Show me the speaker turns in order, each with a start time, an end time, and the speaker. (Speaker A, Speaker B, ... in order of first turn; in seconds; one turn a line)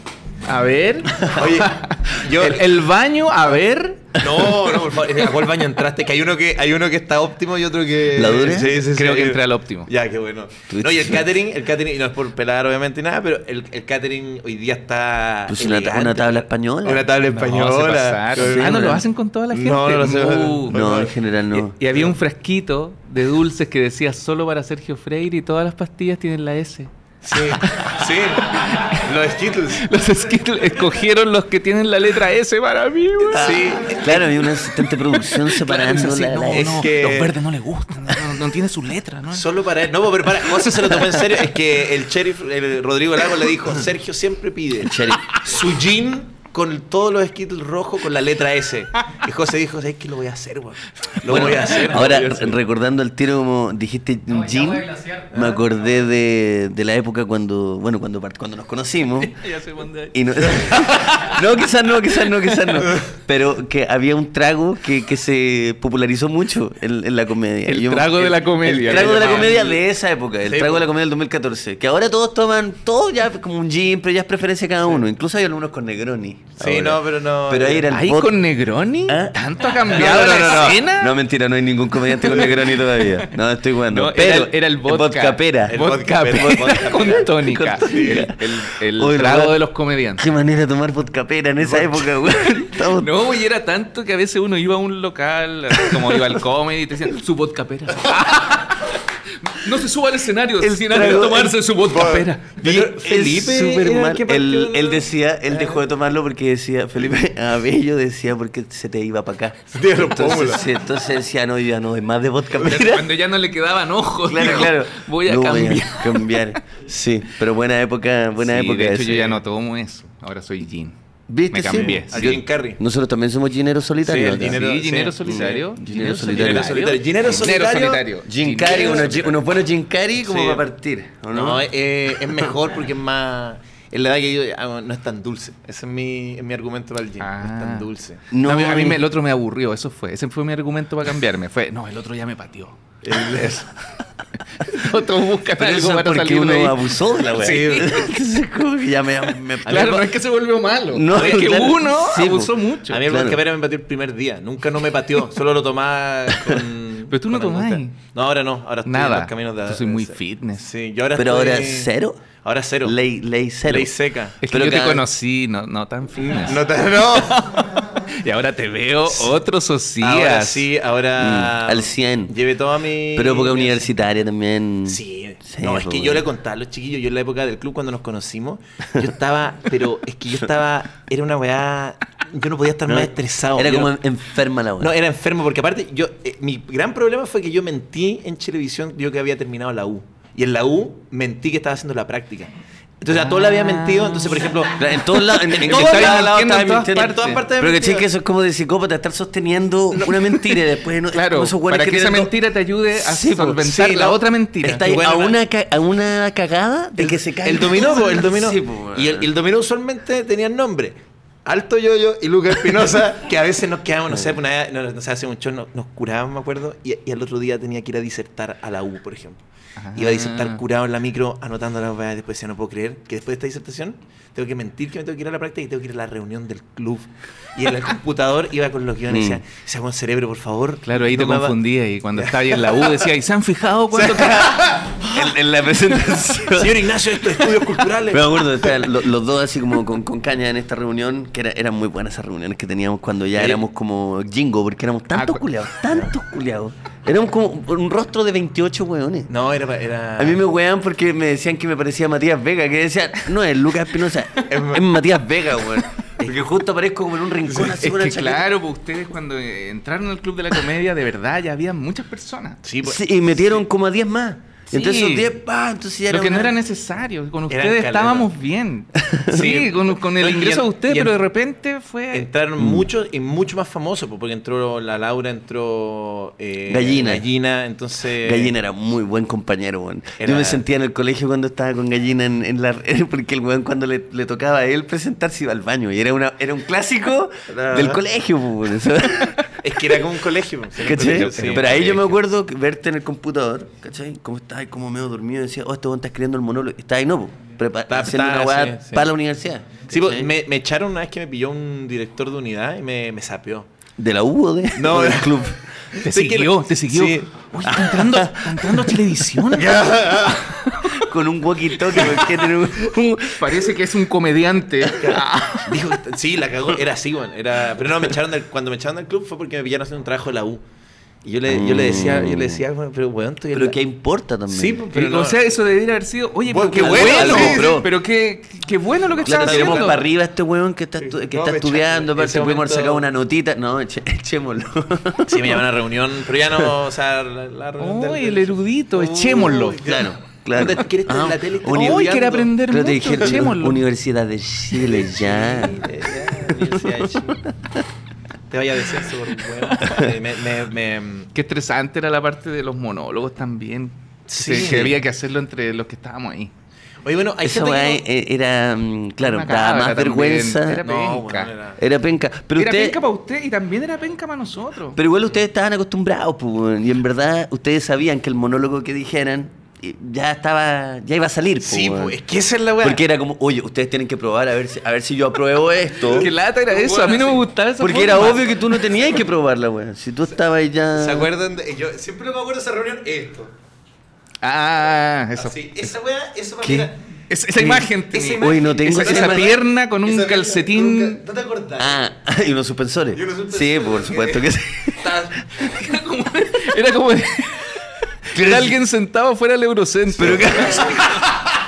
Speaker A: 0.4-4.1
Speaker B: 1.3-2.6
Speaker B: 4.2-21.1
Speaker C: 4.2-4.6
Speaker C: 8.1-8.8
Speaker A: 8.6-9.9
Speaker C: 10.7-11.3
Speaker C: 15.5-17.1
Speaker A: 17.3-20.8
Speaker C: 18.4-19.0
Speaker C: 20.6-21.7
Speaker A: 21.5-26.9
Speaker B: 21.9-22.1
Speaker B: 27.2-29.9
Speaker A: 27.5-29.0
Speaker A: 29.8-33.6
Speaker C: 33.2-36.9
Speaker B: 33.3-34.4
Speaker A: 35.1-39.5
Speaker B: 35.8-37.4
Speaker B: 39.3-52.5
Speaker C: 41.0-41.2
Speaker C: 44.8-45.3
Speaker A: 51.1-52.5
Speaker C: 51.2-59.4
Speaker B: 55.3-55.6
Speaker A: 59.2-61.5
Speaker C: 60.1-78.4
Speaker B: 62.8-63.1
Speaker A: 67.7-69.7
Speaker B: 68.7-69.8
Speaker B: 70.4-70.9
Speaker B: 76.6-77.9
Speaker A: 77.9-81.2
Speaker C: 79.1-89.6
Speaker B: 80.0-80.8
Speaker A: 82.2-83.3
Speaker A: 83.9-90.3
Speaker B: 85.7-88.3
Speaker C: 90.2-93.2
Speaker B: 91.6-92.1
Speaker A: 92.2-102.5
Speaker C: 95.9-96.2
Speaker C: 100.6-101.5
Speaker B: 101.9-105.8
Speaker C: 102.6-113.1
Speaker B: 109.7-110.6
Speaker A: 112.6-116.6
Speaker C: 114.2-119.3
Speaker A: 118.4-121.0
Speaker C: 121.3-124.6
Speaker A: 121.5-122.4
Speaker B: 122.1-122.8
Speaker B: 124.0-128.1
Speaker A: 124.3-129.3
Speaker C: 125.3-127.5
Speaker C: 128.2-131.7
Speaker B: 128.6-129.4
Speaker B: 130.2-130.6
Speaker B: 131.3-138.2
Speaker A: 137.2-137.9
Speaker C: 138.3-139.0
Speaker A: 138.4-143.6
Speaker B: 143.0-143.6
Speaker A: 144.5-148.1
Speaker C: 145.6-150.1
Speaker B: 147.3-148.0
Speaker A: 149.6-153.0
Speaker B: 149.7-150.0
Speaker C: 150.9-153.4
Speaker B: 151.1-151.7
Speaker B: 152.9-163.0
Speaker A: 157.1-157.9
Speaker A: 158.8-160.7
Speaker C: 161.2-162.2
Speaker C: 162.8-165.1
Speaker B: 163.7-164.4
Speaker A: 164.4-170.7
Speaker B: 166.2-167.6
Speaker B: 170.0-173.9
Speaker C: 171.2-172.3
Speaker C: 173.1-176.2
Speaker B: 174.9-183.9
Speaker C: 182.8-184.9
Speaker B: 184.8-198.1
Speaker A: 193.1-194.5
Speaker C: 194.6-202.3
Speaker A: 195.4-197.4
Speaker A: 201.1-204.9
Speaker C: 202.9-203.6
Speaker B: 203.6-205.4
Speaker C: 204.6-209.3
Speaker B: 207.0-219.4
Speaker A: 219.8-220.6
Speaker B: 219.9-231.6
Speaker C: 229.1-229.4
Speaker A: 230.8-234.6
Speaker B: 232.1-233.0
Speaker B: 233.9-235.2
Speaker C: 235.0-237.4
Speaker B: 236.5-238.4
Speaker C: 238.1-249.3
Speaker B: 243.3-243.6
Speaker A: 245.1-245.6
Speaker B: 249.3-250.4
Speaker C: 250.2-258.5
Speaker B: 254.4-255.0
Speaker B: 257.5-257.8
Speaker A: 257.6-262.6
Speaker B: 262.6-263.6
Speaker C: 262.8-266.5
Speaker A: 264.7-265.3
Speaker A: 266.1-272.3
Speaker B: 267.5-268.3
Speaker C: 268.9-269.4
Speaker B: 269.3-271.2
Speaker B: 272.1-278.5
Speaker C: 272.6-272.9
Speaker C: 276.7-277.2
Speaker C: 278.2-290.0
Speaker B: 280.2-280.6
Speaker B: 287.5-288.0
Speaker B: 289.6-291.7
Speaker C: 290.8-300.3
Speaker A: 290.8-292.1
Speaker B: 297.9-299.1
Speaker B: 299.9-303.7
Speaker C: 304.0-305.6
Speaker B: 304.8-307.5
Speaker A: 306.0-309.8
Speaker C: 307.6-309.0
Speaker B: 309.5-310.5
Speaker A: 310.5-310.9
Speaker C: 310.8-313.7
Speaker B: 311.9-312.3
Speaker A: 313.4-315.7
Speaker B: 314.9-320.6
Speaker B: 321.2-323.8
Speaker C: 321.5-322.6
Speaker C: 323.5-324.8
Speaker B: 324.5-325.5
Speaker A: 324.9-330.0
Speaker B: 326.5-327.8
Speaker C: 326.8-327.9
Speaker B: 329.1-330.0
Speaker C: 329.2-335.6
Speaker B: 331.0-333.1
Speaker B: 335.2-342.5
Speaker A: 337.8-339.8
Speaker C: 339.6-347.8
Speaker A: 341.7-343.9
Speaker B: 344.7-347.4
Speaker B: 348.5-351.3
Speaker C: 349.8-350.1
Speaker A: 351.3-356.5
Speaker B: 354.3-355.0
Speaker B: 357.0-358.0
Speaker C: 357.4-360.8
Speaker A: 359.2-361.5
Speaker B: 360.8-361.8
Speaker C: 361.8-363.0
Speaker A: 362.6-365.0
Speaker C: 364.9-372.2
Speaker B: 371.6-373.0
Speaker C: 372.8-376.3
Speaker B: 376.0-377.5
Speaker A: 376.1-378.8
Speaker C: 377.8-381.3
Speaker B: 380.9-383.5
Speaker A: 384.4-385.9
Speaker B: 385.4-387.0
Speaker C: 386.6-386.9
Speaker A: 387.3-391.2
Speaker C: 387.6-389.6
Speaker B: 388.1-392.0
Speaker C: 391.8-395.6
Speaker B: 393.1-395.5
Speaker A: 395.6-401.0
Speaker C: 398.3-398.8
Speaker C: 400.1-401.2
Speaker B: 400.5-400.9